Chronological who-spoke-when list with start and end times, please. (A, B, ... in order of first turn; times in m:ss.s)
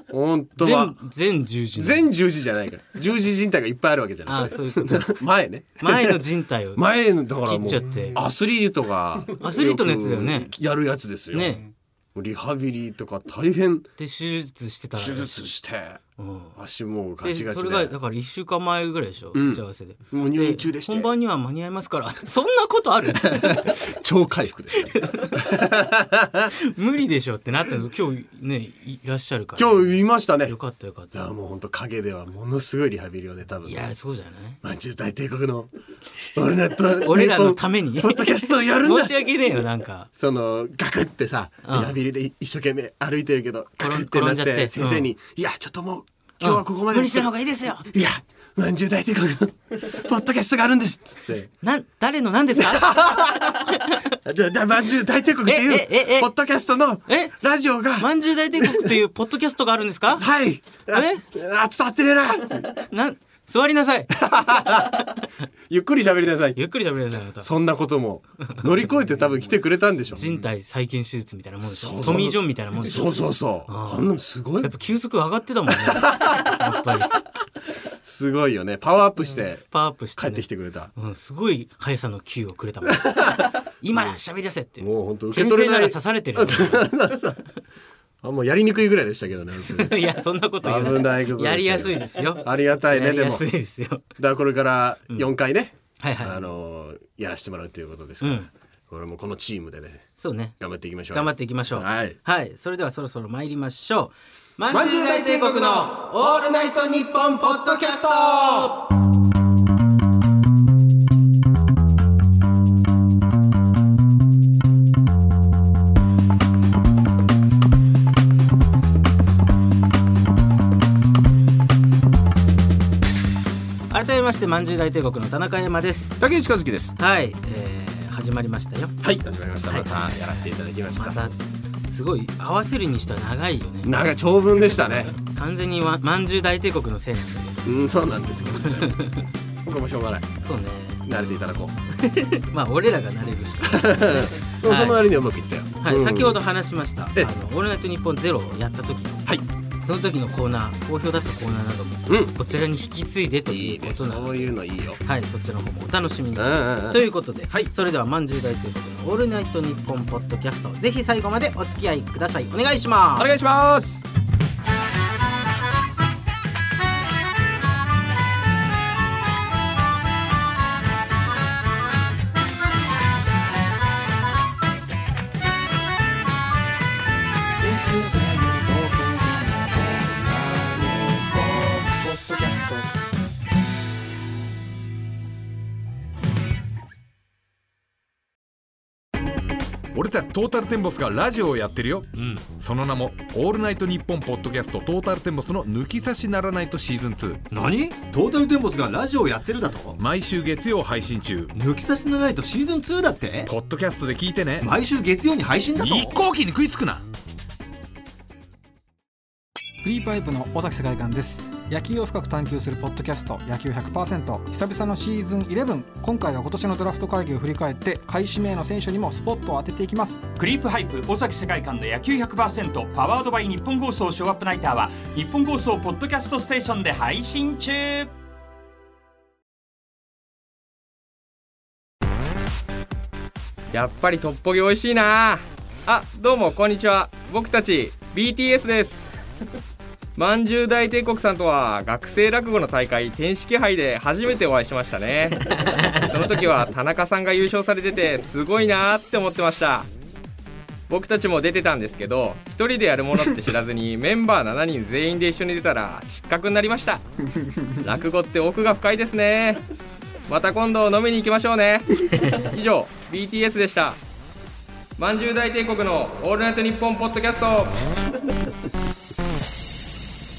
0:00.1-0:00.9 A
0:00.6-0:02.1 B
0:01.8-0:06.2 A
0:04.3-0:05.2 B
0:05.8-0:06.8 B
0:06.7-0:11.6 A
0:07.4-0:08.2 B
0:09.4-0:10.5 B
0:11.3-0:11.6 B
0:12.1-0:13.9 A
0:14.0-0:15.5 B
0:15.0-0:16.0 A
0:16.2-0:16.6 B
0:16.6-0:17.9 A
0:17.2-0:23.8 B
0:19.3-0:21.1 A
0:23.3-0:26.5 A
0:24.9-0:25.4 B
0:26.6-0:29.9 B
0:29.6-0:30.5 A
0:30.4-0:31.1 B
0:31.1-0:33.8 A
0:33.6-0:34.6 B
0:34.6-0:35.7 A
0:36.3-0:39.2 A
0:37.0-0:40.1 B
0:40.1-0:47.3 A
0:41.6-0:42.0 B
0:43.8-0:45.1 B
0:46.4-0:47.9 B
0:47.9-0:51.5 A
0:51.6-0:54.1 B
0:52.5-0:53.7 A
0:54.2-0:59.0 A
0:55.4-0:56.3 B
0:57.1-0:57.3 B
0:58.0-1:00.2 B
1:00.1-1:02.7 A
1:00.9-1:01.2 B
1:02.9-1:05.2 B
1:04.1-1:05.1 A
1:05.7-1:06.6 A
1:06.6-1:07.5 B
1:07.4-1:10.3 A
1:10.1-1:13.1 B
1:11.6-1:14.7 A
1:13.6-1:14.1 B
1:14.6-1:17.2 B
1:15.9-1:16.5 A
1:18.0-1:20.9 A
1:19.7-1:26.9 B
1:23.0-1:23.5 A
1:24.8-1:27.4 A
1:28.2-1:30.1 A
1:29.7-1:34.0 B
1:30.6-1:33.4 A
1:34.2-1:40.0 A
1:36.0-1:36.4 B
1:38.2-1:38.5 B
1:40.2-1:40.6 B
1:40.6-1:42.2 A
1:41.1-1:48.8 B
1:44.7-1:46.0 A
2:03.9-2:06.2 B
2:06.2-2:06.9 A
2:07.0-2:09.0 B
2:09.0-2:11.3 A
2:09.7-2:10.1 B
2:11.0-2:13.9 B
2:13.8-2:15.1 A
2:14.6-2:17.7 B
2:17.6-2:19.0 A
2:18.6-2:19.3 B
2:19.6-2:20.4 A
2:20.4-2:21.0 B
2:21.0-2:21.7 A
2:21.9-2:25.0 B
2:23.6-2:26.4 A
2:25.8-2:29.2 B
2:29.8-2:34.5 B
2:32.1-2:32.3 A
2:33.5-2:35.0 A
2:35.0-2:43.3 B
2:36.3-2:37.7 A
2:43.2-2:44.0 A
2:57.6-3:02.9 C
3:09.9-3:17.4 D
3:17.5-3:20.0 C
3:20.0-3:21.5 D
3:21.5-3:23.5 C
3:23.4-3:24.7 D
3:24.6-3:26.2 C
3:25.7-3:27.0 D
3:29.8-3:40.2 E
3:40.4-3:48.1 F
3:53.7-3:59.1 G
4:00.2-4:09.9 G
4:05.5-4:06.1 B
4:10.9-4:17.0 G
4:17.8-4:19.6 G
4:20.3-4:24.0 G
4:25.0-4:27.8 G